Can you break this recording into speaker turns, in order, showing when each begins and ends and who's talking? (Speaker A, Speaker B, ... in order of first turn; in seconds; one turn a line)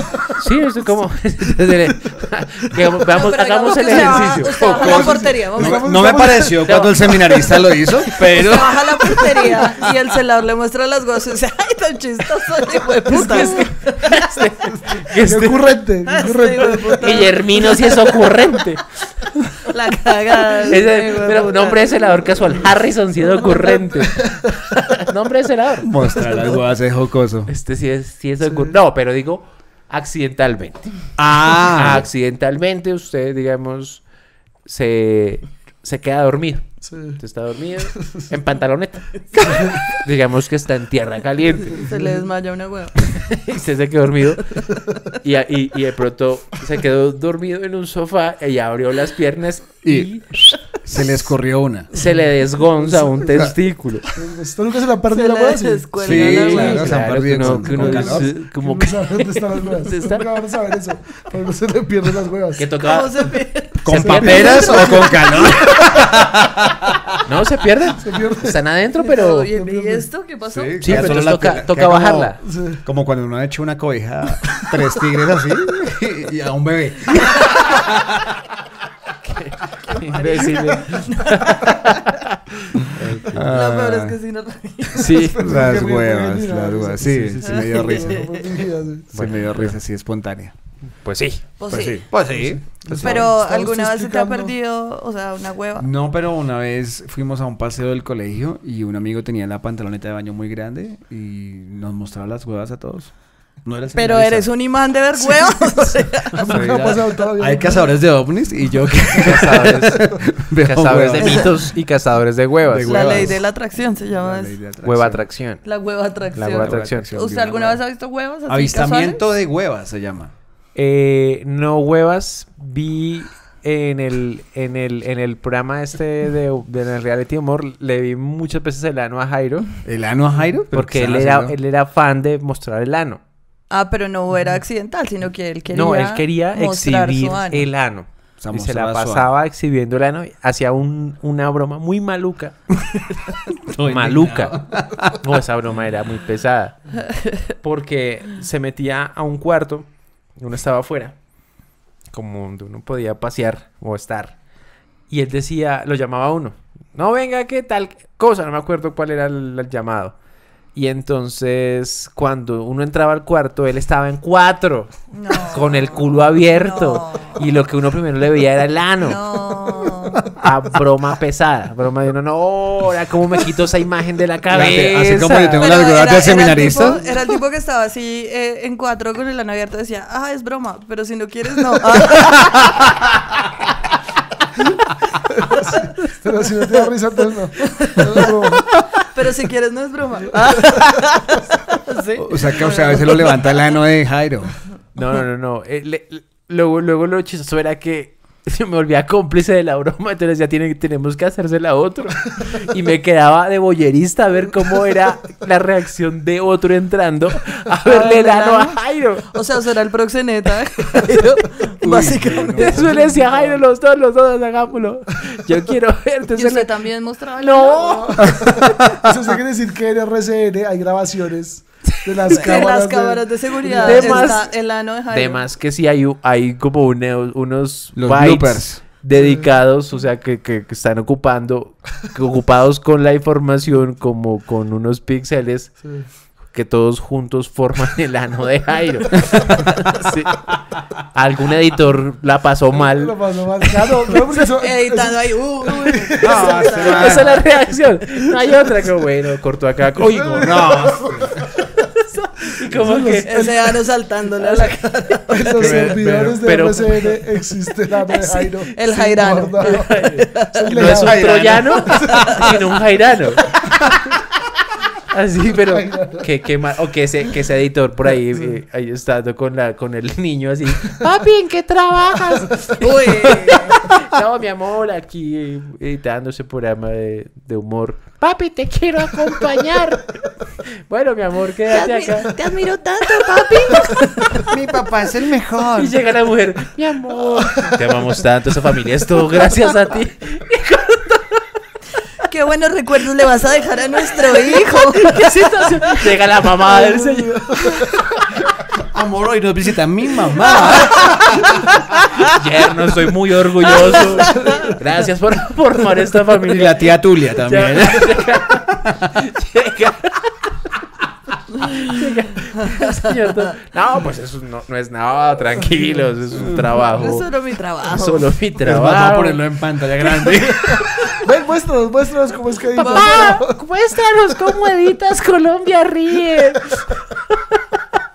Speaker A: 0.4-5.1
Speaker B: 3.1-6.1
Speaker C: 4.6-9.5
Speaker D: 4.8-7.5
Speaker B: 8.3-13.9
Speaker D: 13.1-13.7
Speaker A: 13.2-15.8
Speaker D: 14.6-18.1
Speaker B: 16.1-18.1
Speaker A: 17.0-19.0
Speaker B: 19.6-21.9
Speaker A: 20.7-25.9
Speaker C: 25.8-27.5
Speaker A: 27.5-34.0
Speaker D: 28.4-28.7
Speaker C: 31.2-32.1
Speaker A: 34.6-41.8
Speaker D: 36.8-37.2
Speaker D: 39.4-39.9
Speaker D: 41.7-42.3
Speaker B: 41.8-43.0
Speaker A: 43.2-44.6
Speaker A: 45.2-51.2
Speaker C: 49.8-51.9
Speaker D: 51.9-52.2
Speaker A: 51.9-54.0
Speaker D: 52.8-53.5
Speaker D: 54.1-62.6
Speaker B: 55.1-57.0
Speaker C: 56.0-58.3
Speaker A: 56.1-60.2
Speaker A: 62.6-65.0
Speaker B: 62.8-65.8
Speaker C: 63.8-66.8
Speaker D: 63.9-65.1
Speaker A: 67.2-69.5
Speaker D: 68.0-68.6
Speaker B: 69.0-71.3
Speaker D: 69.5-70.1
Speaker C: 70.5-78.1
Speaker A: 70.8-72.4
Speaker D: 72.5-72.8
Speaker A: 79.2-83.5
Speaker C: 80.2-80.6
Speaker B: 80.3-81.2
Speaker C: 83.2-84.2
Speaker B: 83.5-85.2
Speaker A: 85.0-85.7
Speaker D: 85.1-89.1
Speaker C: 85.4-88.4
Speaker B: 87.4-88.3
Speaker A: 89.1-89.8
Speaker C: 89.1-90.5
Speaker A: 90.9-92.0
Speaker B: 91.6-92.2
Speaker C: 91.7-93.2
Speaker D: 92.3-94.5
Speaker B: 93.0-95.9
Speaker C: 95.8-104.5
Speaker B: 103.9-106.5
Speaker D: 106.3-107.9
Speaker A: 106.4-107.1
Speaker C: 106.5-111.5
Speaker A: 109.2-113.3
Speaker B: 111.2-111.5
Speaker C: 112.7-115.3
Speaker B: 112.9-114.6
Speaker A: 114.8-115.7
Speaker B: 115.6-119.3
Speaker A: 116.3-117.1
Speaker C: 116.3-117.8
Speaker C: 118.5-120.3
Speaker A: 120.7-129.8
Speaker C: 129.8-131.5
Speaker A: 130.7-133.2
Speaker B: 133.7-137.7
Speaker A: 135.7-142.8
Speaker C: 138.4-139.3
Speaker C: 143.7-145.2
Speaker A: 143.8-147.1
Speaker A: 147.6-151.2
Speaker A: 152.1-154.4
Speaker A: 155.1-160.2
Speaker A: 160.7-169.2
Speaker B: 165.1-167.4
Speaker B: 169.0-170.3
Speaker A: 170.4-175.7
Speaker C: 174.5-177.0
Speaker B: 175.6-182.5
Speaker D: 185.3-188.8
Speaker B: 187.6-188.3
Speaker B: 189.1-193.4
Speaker C: 192.2-194.6
Speaker A: 194.9-209.2
Speaker B: 207.8-208.8
Speaker B: 209.3-212.8
Speaker C: 211.8-213.0
Speaker A: 212.6-216.7
Speaker D: 212.9-213.6
Speaker B: 216.3-218.2
Speaker A: 217.4-218.7
Speaker D: 218.1-224.3
Speaker A: 222.2-222.5
Speaker B: 222.3-225.4
Speaker A: 223.8-244.2
Speaker C: 227.9-228.8
Speaker D: 229.1-229.5
Speaker D: 235.8-236.1
Speaker D: 242.8-246.9
Speaker B: 244.6-247.4
Speaker C: 246.2-247.3
Speaker A: 246.8-251.0
Speaker D: 250.0-251.4
Speaker C: 250.4-251.3
Speaker A: 252.0-253.5
Speaker D: 252.7-253.8
Speaker B: 253.2-255.5
Speaker A: 254.4-254.7
Speaker D: 255.3-261.2
Speaker A: 255.6-257.2
Speaker C: 255.6-256.1
Speaker B: 258.1-260.7
Speaker A: 259.7-263.6
Speaker C: 260.9-262.5
Speaker A: 265.1-280.1
Speaker D: 265.7-266.2
Speaker B: 272.8-273.8
Speaker A: 280.9-282.4
Speaker B: 281.7-284.3
Speaker A: 283.3-284.0
Speaker C: 284.5-285.9
Speaker A: 285.7-291.4
Speaker B: 292.2-295.2
Speaker A: 295.0-297.6
Speaker D: 296.6-298.0
Speaker C: 298.9-301.6
Speaker A: 302.3-306.8
Speaker B: 304.2-304.6
Speaker D: 304.3-304.7
Speaker C: 306.4-309.1
Speaker A: 307.4-310.5
Speaker A: 311.6-317.3
Speaker D: 315.6-316.1
Speaker C: 316.4-316.8
Speaker B: 316.9-318.3
Speaker A: 317.9-319.4
Speaker C: 318.6-321.0
Speaker D: 321.2-323.6
Speaker B: 322.7-323.4
Speaker A: 322.8-327.6